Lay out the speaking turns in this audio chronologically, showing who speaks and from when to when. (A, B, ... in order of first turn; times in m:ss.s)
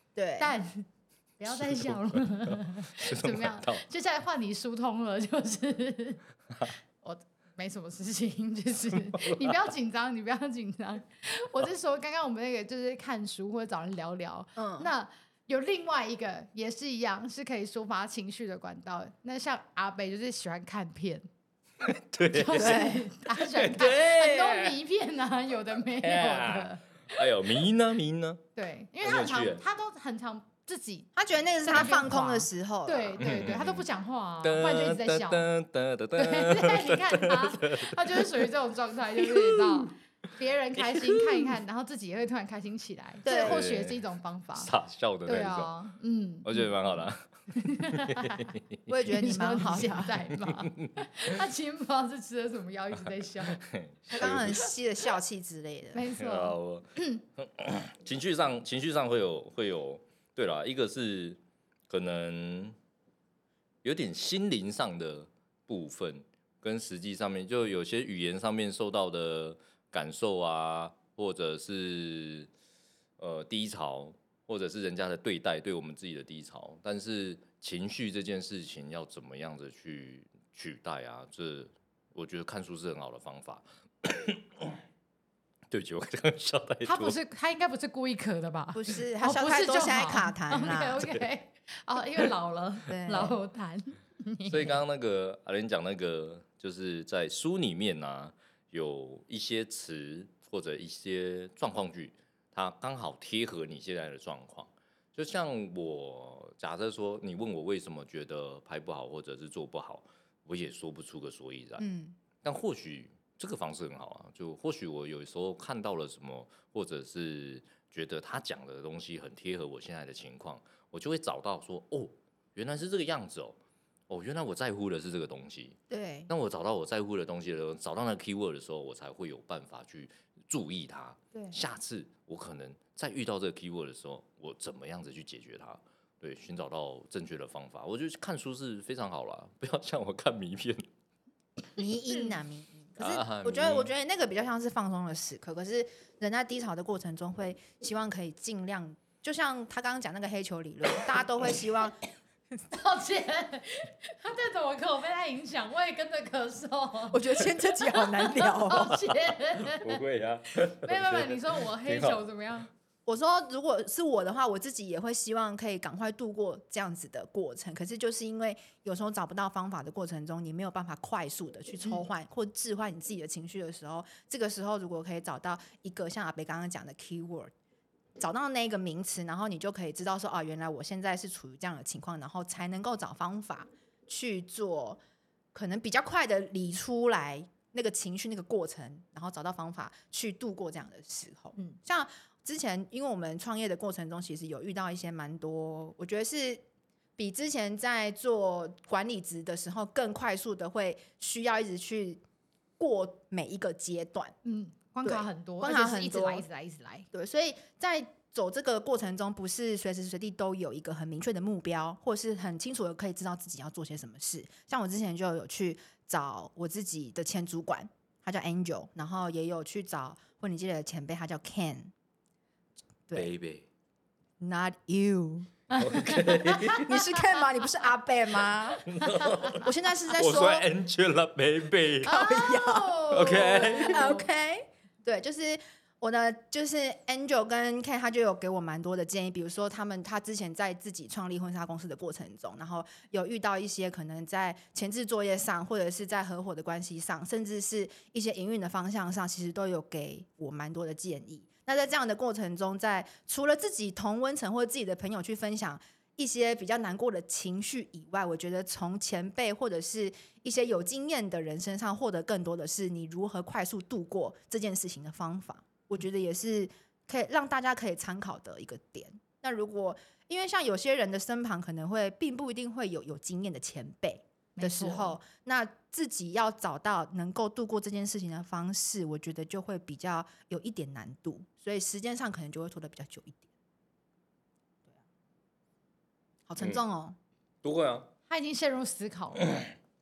0:00.2-0:00.5 A
0:00.4-0:00.9 B
0:01.4-0:21.3 B
0:01.5-0:03.8 C
0:09.1-0:09.5 C
0:14.6-0:14.9 A
0:21.8-0:24.8 C
0:22.3-0:26.8 B
0:22.6-0:23.0 A
0:26.0-0:28.4 C
0:28.6-0:31.1 B
0:29.0-0:29.6 C
0:31.2-0:33.2 A
0:31.6-0:35.5 B
0:33.2-0:33.9 C
0:34.4-0:38.5 C
0:36.2-0:44.7 B
0:39.2-0:39.8 C
0:40.8-0:41.5 C
0:43.2-0:43.6 A
0:43.3-0:44.0 C
0:44.6-0:45.7 C
0:45.3-0:46.6 B
0:46.4-0:48.8 C
0:47.5-0:48.6 B
0:48.9-0:50.2 A
0:49.1-0:53.6 B
0:50.4-0:50.9 C
0:53.5-0:54.7 C
0:54.1-0:56.1 A
0:55.9-0:57.2 B
0:56.2-1:02.8 C
1:03.8-1:12.5 C
1:13.2-1:24.8 C
1:25.7-1:27.2 C
1:26.9-1:34.8 B
1:28.7-1:31.0 A
1:31.0-1:31.2 C
1:32.9-1:33.4 A
1:33.1-1:33.4 C
1:34.5-1:51.8 C
1:51.8-1:52.2 A
1:52.4-2:03.6 C
2:04.1-2:20.8 C
2:05.9-2:06.3 A
2:21.8-2:32.0 A
2:23.0-2:23.9 C
2:32.7-2:40.0 B
2:37.1-2:39.0 A
2:38.8-2:42.3 C
2:40.8-2:42.7 B
2:43.1-2:57.5 A
2:58.2-3:05.0 A
3:05.5-3:16.6 A
3:17.2-3:22.2 A
3:22.8-3:24.3 A
3:24.4-3:27.1 B
3:25.0-3:26.4 A
3:27.1-3:41.9 A
3:43.1-3:43.6 C
3:44.4-3:45.5 A
3:45.7-3:47.0 B
3:45.8-3:47.1 C
3:46.7-3:48.9 A
3:48.9-3:52.3 C
3:49.0-3:49.6 B
3:49.5-3:50.6 A
3:52.0-3:54.3 B
3:52.1-4:43.4 A
3:53.1-3:54.1 C
4:34.6-4:35.2 B
4:46.5-4:47.2 A
4:47.6-4:48.1 C
4:48.3-4:49.6 B